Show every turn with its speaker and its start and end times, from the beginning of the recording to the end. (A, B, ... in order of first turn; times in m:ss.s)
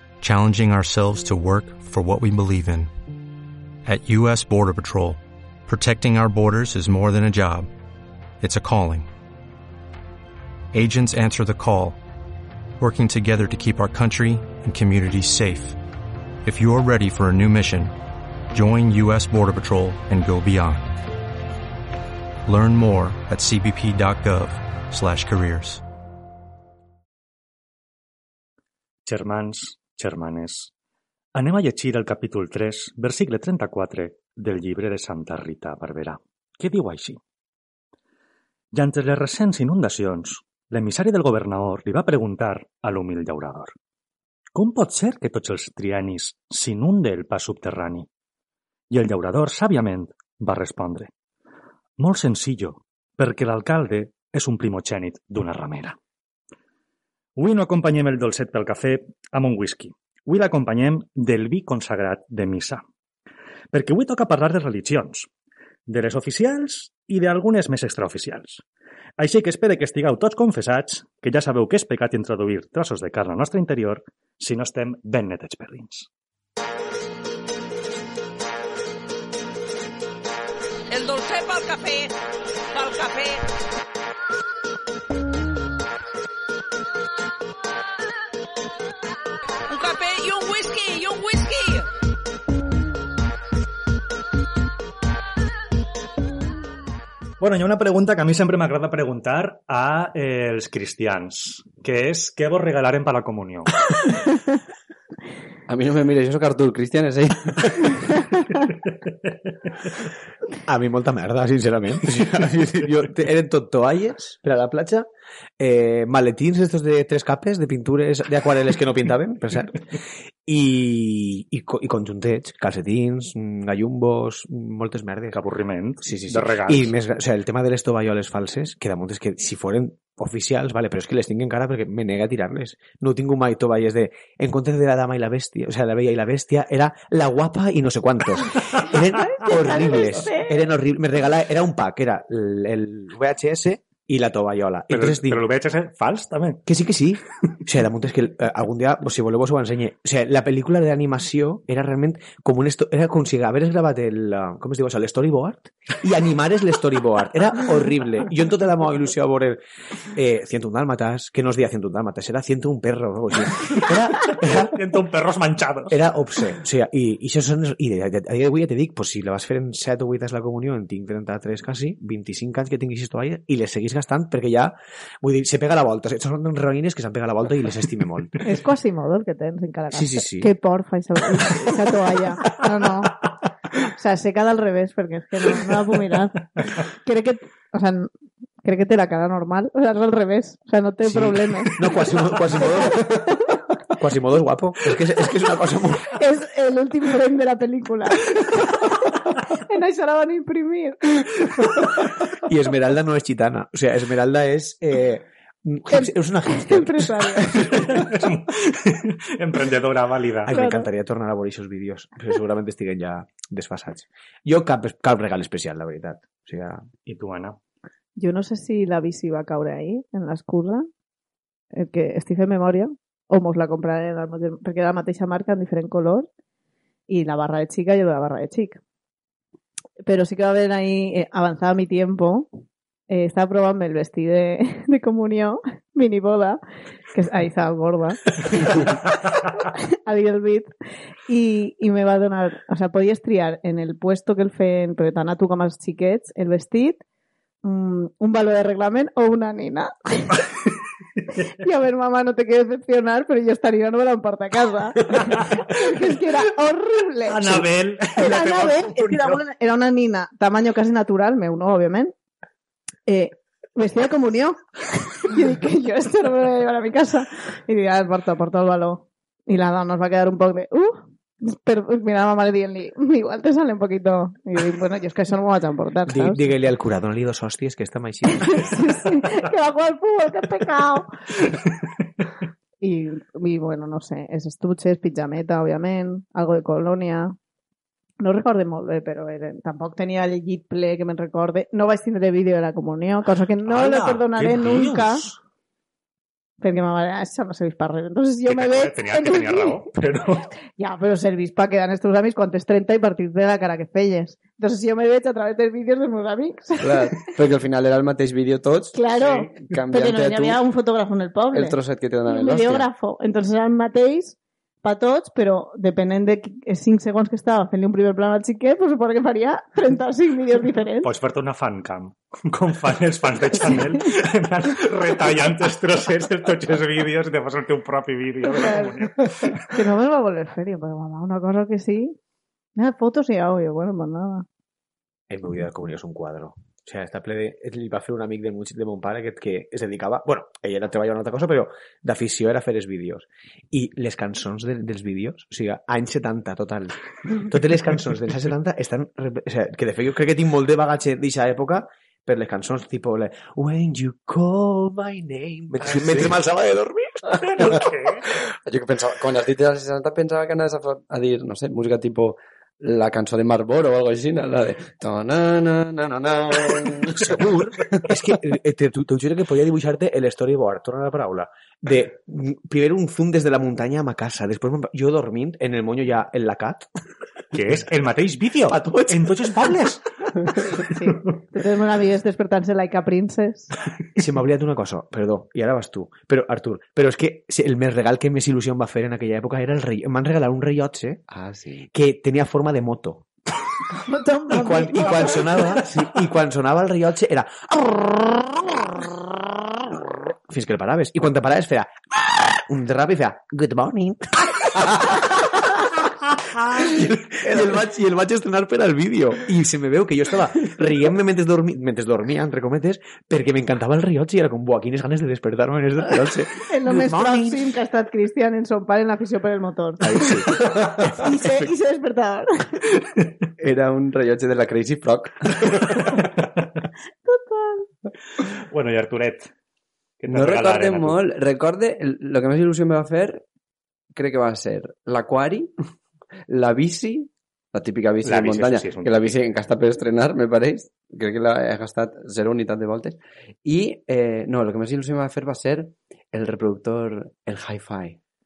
0:00.2-0:02.9 A
0:03.8-0:07.7 A
0:08.4-0:09.1 A
0:10.7-0:12.0 A
0:12.8-0:15.8 A
0:16.4-0:17.9 A
0:18.5-0:21.0 A
0:22.4-0:25.8 A
0:29.0-0:30.7 B
0:31.3-0:37.2 B
0:38.7-0:43.7 B
0:44.5-0:48.1 B
0:48.9-0:51.1 B
0:52.0-0:56.0 B
0:57.4-1:02.8 B
1:03.7-1:05.3 B
1:05.9-1:08.6 B
1:09.2-1:16.1 B
1:20.9-1:22.1 C
1:22.7-1:23.4 C
1:29.7-1:31.9 C
1:37.4-1:43.7 B
1:45.7-1:48.2 D
1:50.6-1:55.1 E
1:55.6-1:59.8 E
2:00.4-2:05.4 E
2:05.3-2:06.9 B
2:06.0-2:25.4 E
2:19.2-2:20.6 F
2:24.9-2:26.6 B
2:26.6-2:44.8 E
2:43.8-2:46.0 B
2:45.9-2:58.4 E
2:58.4-3:03.1 F
2:59.9-3:00.5 E
3:03.8-3:08.1 F
3:08.6-3:11.8 F
3:11.0-3:16.2 E
3:12.5-3:13.6 F
3:16.1-3:21.2 F
3:22.3-3:28.0 E
3:25.9-3:27.6 F
3:27.6-3:30.5 B
3:30.4-3:36.8 E
3:30.5-3:30.9 F
3:37.0-3:37.6 B
3:38.2-3:40.9 F
3:41.7-3:46.3 F
3:47.1-3:48.8 F
3:50.0-3:52.5 F
3:53.1-3:56.6 F
3:57.1-3:59.0 F
3:59.7-4:00.7 F
4:01.3-4:07.0 F
4:07.6-4:10.5 F
4:11.5-4:17.6 F
4:15.2-4:15.4 B
4:17.3-4:19.4 B
4:18.2-4:22.1 F
4:23.1-4:36.4 F
4:36.1-4:39.1 E
4:38.3-4:41.1 F
4:42.8-4:47.3 F
4:48.2-4:55.2 F
4:53.6-4:55.4 B
4:56.6-4:59.8 F
4:58.5-5:00.5 B
5:00.8-5:07.0 F
5:06.8-5:09.0 D
5:08.9-5:11.8 F
5:09.2-5:09.5 B
5:09.5-5:10.6 D
5:11.5-5:12.9 D
5:12.3-5:21.1 F
5:21.0-5:29.6 B
5:28.5-5:28.9 F
5:29.7-5:32.1 F
5:32.8-5:34.4 F
5:35.3-5:57.8 E
5:55.8-5:56.4 B
5:57.4-5:58.2 B
5:58.5-6:08.0 D
6:07.3-6:16.9 E
6:17.5-6:20.0 B
6:18.7-6:19.8 E
6:20.5-6:23.7 F
6:24.1-6:31.2 E
6:31.3-6:31.9 D
6:31.9-6:33.2 E
6:34.0-6:35.8 F
6:34.5-6:39.1 E
6:40.5-6:57.6 E
6:56.6-7:02.8 F
7:00.0-7:01.6 E
7:03.6-7:06.1 D
7:07.2-7:07.9 F
7:08.4-7:09.5 B
7:10.2-7:11.2 B
7:10.3-7:13.4 D
7:14.1-7:15.7 D
7:16.5-7:28.2 D
7:18.2-7:19.3 B